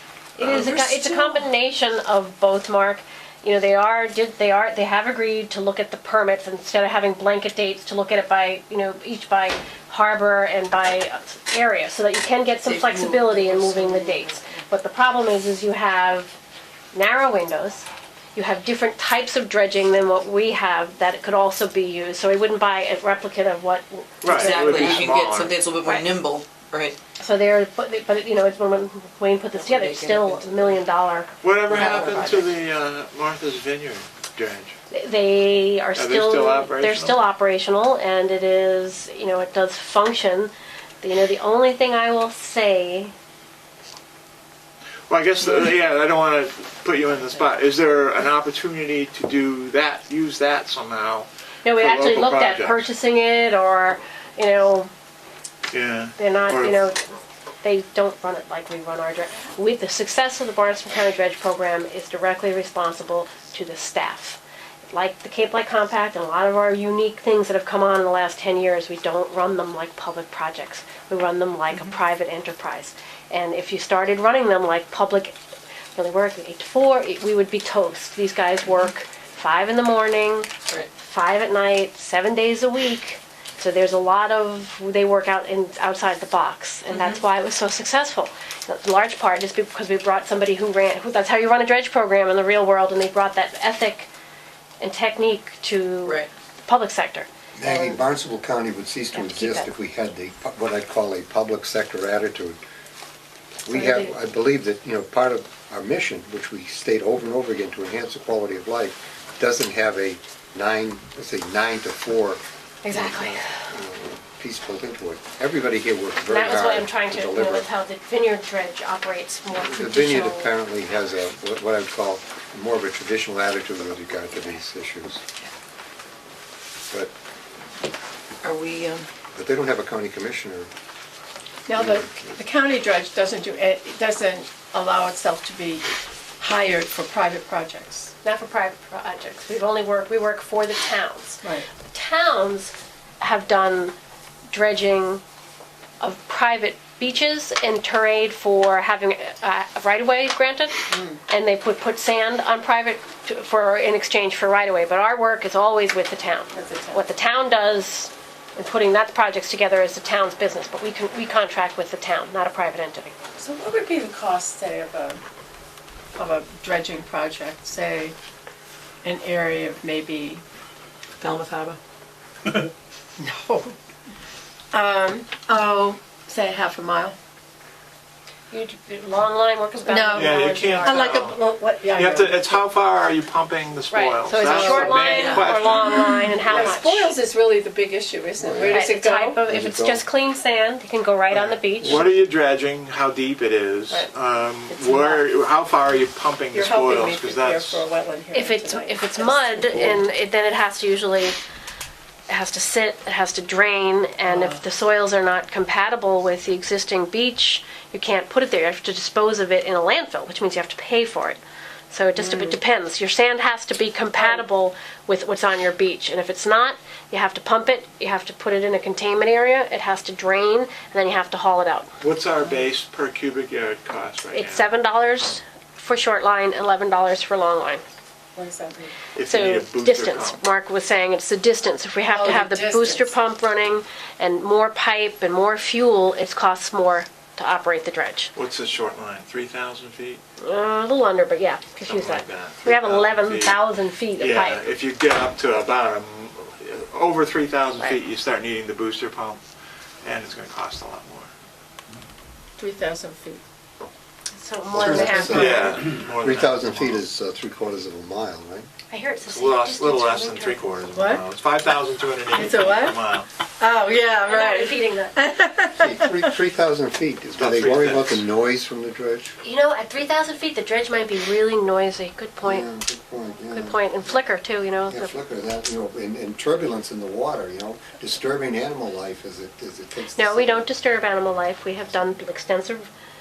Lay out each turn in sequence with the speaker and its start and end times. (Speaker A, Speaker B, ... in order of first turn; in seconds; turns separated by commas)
Speaker A: 0.4-0.7, Speaker B: 0.4-16.4, Speaker C: 0.5-1.4, Speaker C: 12.7-14.6, Speaker B: 16.9-25.1, Speaker A: 24.2-25.6, Speaker C: 24.3-27.0, Speaker B: 27.2-32.2, Speaker C: 29.5-30.8, Speaker A: 31.4-34.8, Speaker C: 31.6-32.5, Speaker B: 34.9-40.5, Speaker A: 35.9-37.2, Speaker B: 41.0-43.1, Speaker A: 45.1-52.8, Speaker B: 51.6-54.9, Speaker A: 55.7-56.8, Speaker B: 56.2-57.0, Speaker B: 57.6-64.4, Speaker B: 64.9-75.3, Speaker B: 75.9-94.1, Speaker C: 86.9-87.2, Speaker B: 94.8-97.9, Speaker C: 96.0-96.3, Speaker D: 97.5-102.6, Speaker B: 99.1-99.7, Speaker D: 103.7-117.7, Speaker B: 103.7-104.1, Speaker B: 112.8-113.6, Speaker B: 116.3-120.5, Speaker D: 119.5-125.2, Speaker C: 128.4-129.1, Speaker D: 129.3-130.7, Speaker E: 131.7-135.8, Speaker D: 131.7-132.2, Speaker E: 136.4-138.1, Speaker B: 138.2-143.9, Speaker E: 141.4-141.7, Speaker B: 144.5-145.2, Speaker B: 146.0-163.2, Speaker E: 150.9-151.2, Speaker E: 156.5-157.0, Speaker E: 163.3-165.2, Speaker E: 166.2-168.1, Speaker E: 169.0-170.4, Speaker C: 171.2-171.6, Speaker E: 171.2-171.8, Speaker E: 173.2-173.8, Speaker E: 174.7-177.2, Speaker B: 178.5-181.1, Speaker E: 179.9-182.6, Speaker A: 180.1-186.8, Speaker B: 183.9-187.1, Speaker E: 184.4-185.4, Speaker C: 185.1-185.5, Speaker E: 186.0-189.4, Speaker D: 188.4-188.8, Speaker B: 188.7-192.1, Speaker D: 189.5-190.0, Speaker A: 191.3-197.8, Speaker E: 194.7-195.2, Speaker E: 196.5-200.0, Speaker B: 198.3-201.3, Speaker B: 202.3-211.4, Speaker E: 204.3-204.6, Speaker B: 211.9-221.9, Speaker E: 212.2-212.5, Speaker A: 222.0-224.7, Speaker B: 224.3-227.8, Speaker E: 228.3-228.9, Speaker A: 229.1-230.4, Speaker B: 229.2-238.3, Speaker E: 232.1-233.1, Speaker A: 238.3-240.2, Speaker B: 240.4-244.6, Speaker A: 241.8-243.6, Speaker A: 244.2-249.4, Speaker A: 250.0-251.3, Speaker E: 252.6-253.4, Speaker B: 254.3-255.8, Speaker D: 254.7-258.7, Speaker E: 255.1-255.6, Speaker A: 255.2-257.0, Speaker B: 258.9-260.7, Speaker A: 259.2-263.3, Speaker E: 260.9-261.2, Speaker E: 262.3-263.0, Speaker E: 263.6-266.3, Speaker B: 264.2-265.1, Speaker D: 265.8-269.3, Speaker A: 267.4-268.2, Speaker B: 269.4-272.7, Speaker D: 272.4-273.8, Speaker B: 273.5-275.1, Speaker D: 274.9-280.7, Speaker B: 280.1-282.8